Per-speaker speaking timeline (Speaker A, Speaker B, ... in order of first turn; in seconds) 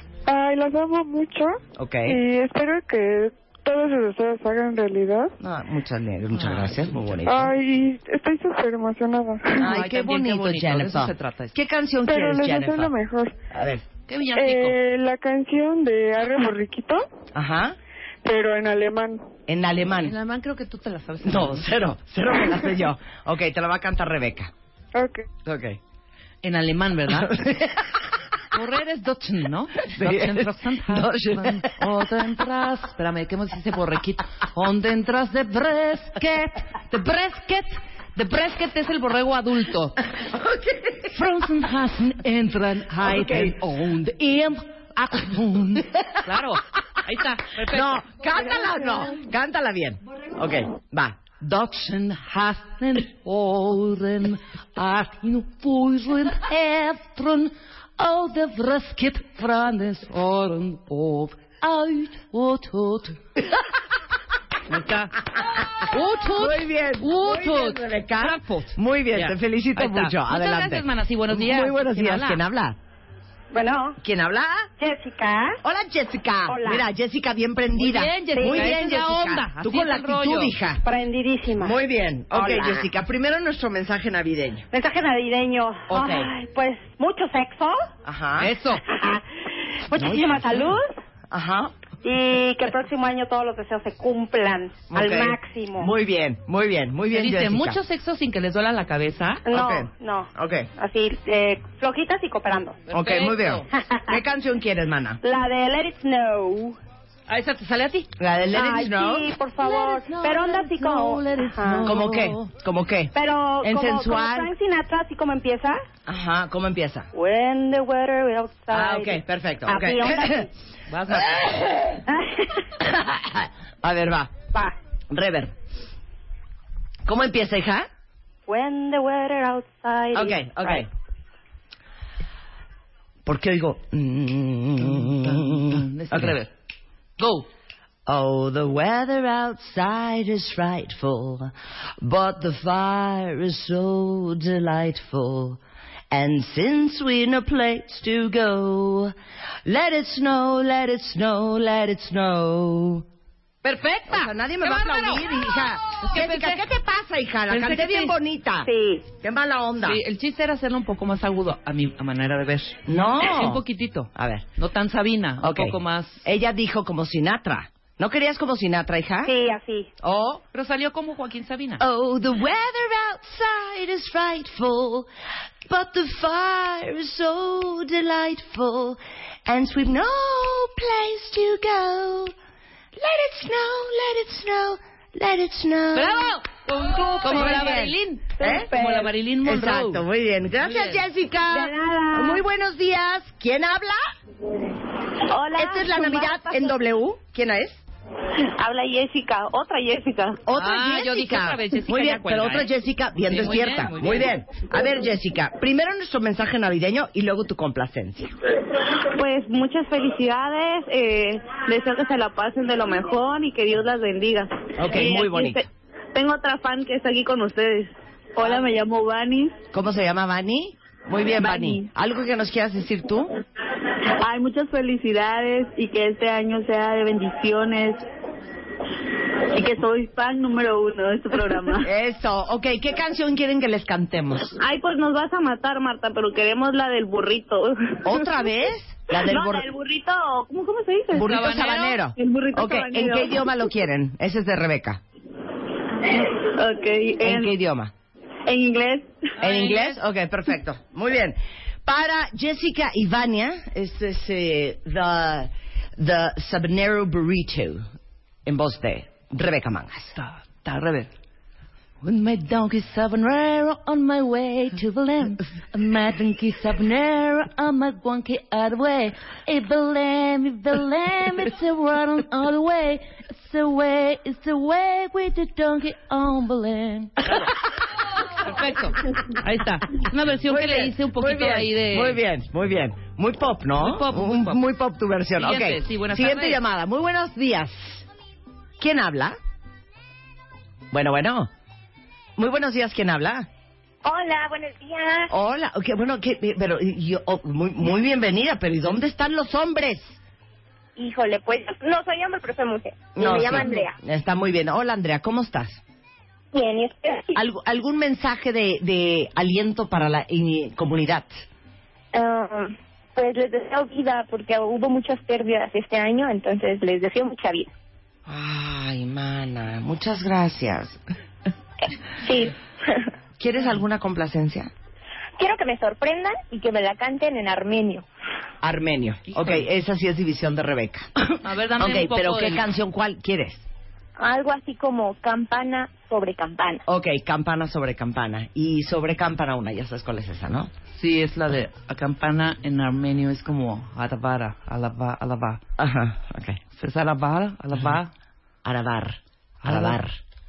Speaker A: 0.3-5.3, 7.2-9.6, 12.1-13.3, 14.3-17.0, 18.2-19.3, 24.9-25.3
Speaker B: 1.8-2.2, 5.4-7.5, 9.6-12.9, 13.5-13.8, 17.3-17.8, 19.5-20.1, 21.2-24.5, 25.4-25.8, 27.1-27.8, 29.9-31.9, 40.2-41.0, 43.0-43.5, 47.6-51.5, 66.3-72.8, 74.0-74.7, 75.6-80.8, 81.6-84.7, 85.9-86.3, 88.0-88.5, 91.3-91.7, 94.9-97.8, 99.5-100.7, 102.9-105.2, 108.2-109.3, 111.8-114.5, 116.0-117.1, 118.7-120.5, 122.8-124.3, 125.1-125.5, 127.0-127.9, 130.1-130.9, 133.2-136.4, 138.1-145.6, 146.1-149.1, 149.6-153.1, 154.1-160.0, 162.9-163.6, 164.1-164.4, 165.4-169.3, 170.0-170.4, 171.8-175.1, 175.6-182.3, 182.9-186.4, 187.0-188.7, 189.4-194.0, 195.5-197.8, 200.4-208.4, 214.8-215.6, 219.7-223.3, 231.8-234.6, 238.0-239.7, 241.1-245.0, 247.2-247.9, 249.4-257.8, 258.4-260.1, 280.4-288.1, 288.8-289.4, 290.9-291.5, 292.4-293.5, 295.3-300.2, 303.1-305.8, 307.3-311.4, 318.2-321.0, 323.4-324.7, 328.6-333.6, 336.9-340.7, 345.8-346.6, 348.6-350.1
Speaker C: 6.3-6.8, 9.6-11.6, 14.1-14.8, 20.0-21.7, 26.4-27.4, 28.5-40.0, 41.1-49.1, 51.5-63.2, 64.7-65.2, 65.9-68.4, 69.1-72.4, 77.8-80.5, 88.4-88.8, 90.2-90.6, 97.1-99.4, 102.9-103.7, 107.3-108.1, 109.6-112.5, 120.9-121.6, 134.8-136.5, 137.2-137.5, 153.6-155.4, 156.0-156.6, 157.5-158.2, 159.8-166.2, 170.5-171.8, 185.9-190.0, 190.6-191.0, 200.5-204.3, 241.1-242.0, 249.4-250.0, 260.1-261.1, 262.0-277.5, 278.3-282.2, 283.8-284.6, 285.4-286.6, 329.3-329.6, 331.4-332.6, 340.9-345.6, 346.8-348.1, 349.6-350.0
Speaker D: 73.5-74.0, 74.8-75.6, 76.5-76.8, 78.3-78.7, 80.8-81.8, 82.3-82.9, 84.7-87.8, 88.8-89.2, 89.9-90.9, 92.0-95.9, 99.5-102.8, 103.8-104.2, 105.2-106.8, 108.5-111.8, 113.1-115.8, 117.1-120.5, 122.1-122.7, 128.5-130.8, 158.6-159.0, 169.2-169.9, 186.7-187.8, 188.4-189.1, 191.5-192.4
Speaker E: 195.3-196.6, 198.6-200.4, 209.1-219.5, 221.4-221.9, 224.2-228.0, 229.5-231.9, 234.6-238.4, 239.1-241.5, 242.1-243.5, 246.0-247.5, 248.5-249.2
Speaker F: 294.0-295.3, 300.9-303.9, 306.5-307.3, 312.1-317.7, 322.2-323.0, 325.4-328.1, 334.2-336.8